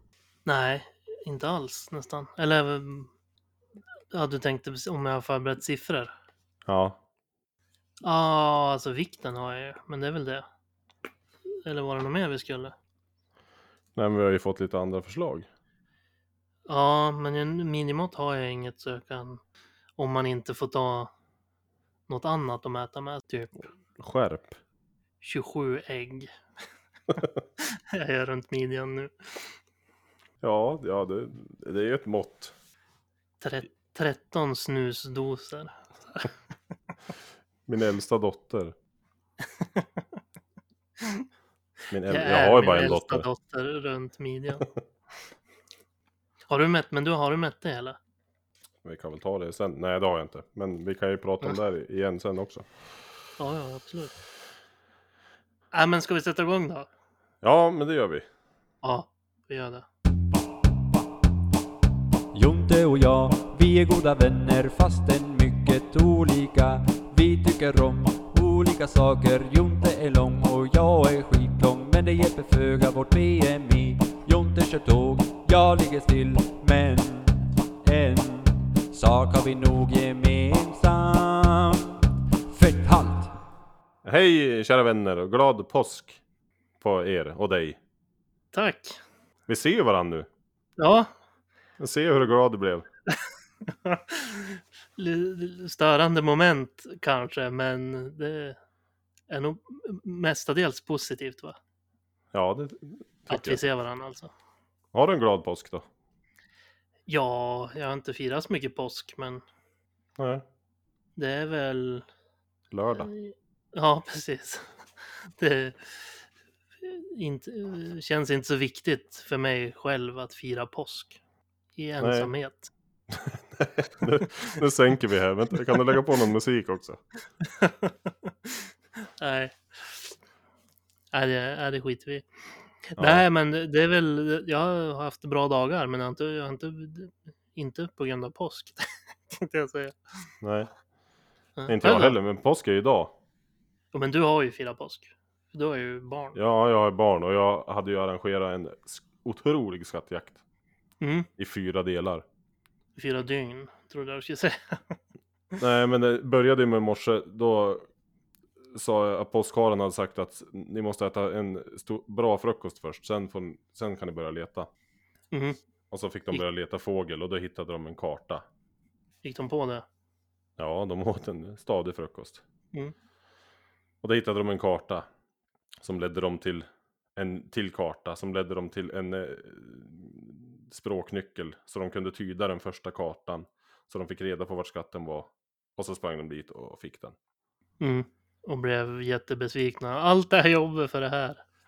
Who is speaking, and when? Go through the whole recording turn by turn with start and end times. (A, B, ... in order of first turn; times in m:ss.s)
0:00.4-0:03.1 A
0:04.1-0:06.1 A
0:06.7-0:07.0 B
0:08.0-0:10.5 A
0:11.6-0:12.7 A
0:14.0-0:15.5 B
0:16.7-0:19.4 A
0:20.0-0:21.1 A
0:22.1-0:23.6 A
0:24.0-0:24.6 B
0:25.2-0:26.3 A
0:27.6-0:29.6 A
0:30.4-0:32.5 B
0:33.4-0:36.3 A
0:37.7-0:38.7 B
0:39.6-0:40.0 A
0:41.0-0:41.3 A
0:41.9-0:43.3 B
0:42.1-0:44.7 A
0:46.5-0:48.0 A
0:48.8-0:52.7 B
0:53.4-0:54.2 A
0:55.7-0:56.9 A
0:57.4-0:58.3 B
0:58.8-0:59.9 A
1:02.3-1:23.3 C
1:24.0-1:26.2 B
1:26.8-1:27.8 B
1:28.5-1:29.0 A
1:29.5-1:30.3 B
1:30.8-1:31.1 A
1:31.8-1:32.8 B
1:33.6-1:38.6 A
1:39.3-1:41.6 A
1:42.3-1:43.6 B
1:43.3-1:44.3 A
1:44.9-1:45.8 B
1:47.1-1:49.4 A
1:50.2-1:50.4 B
1:51.2-1:52.0 A
1:52.7-1:53.1 B
1:53.0-1:54.7 A
1:55.2-1:56.2 A
1:56.8-2:01.2 A
2:01.8-2:02.7 A
2:02.0-2:02.3 B
2:03.1-2:07.0 B
2:07.4-2:10.2 A
2:11.1-2:12.3 A
2:12.9-2:20.0 A
2:13.0-2:13.2 B
2:20.4-2:20.7 B
2:21.6-2:22.2 A
2:21.7-2:23.1 B
2:23.9-2:26.4 A
2:26.3-2:30.4 B
2:31.0-2:31.3 A
2:31.4-2:32.2 B
2:33.0-2:35.0 A
2:35.6-2:37.9 B
2:38.8-2:44.7 B
2:45.3-2:45.6 A
2:45.9-2:48.4 B
2:49.2-2:49.9 A
2:50.6-2:52.4 B
2:54.0-2:55.1 B
2:55.8-3:07.2 B
3:07.8-3:11.4 A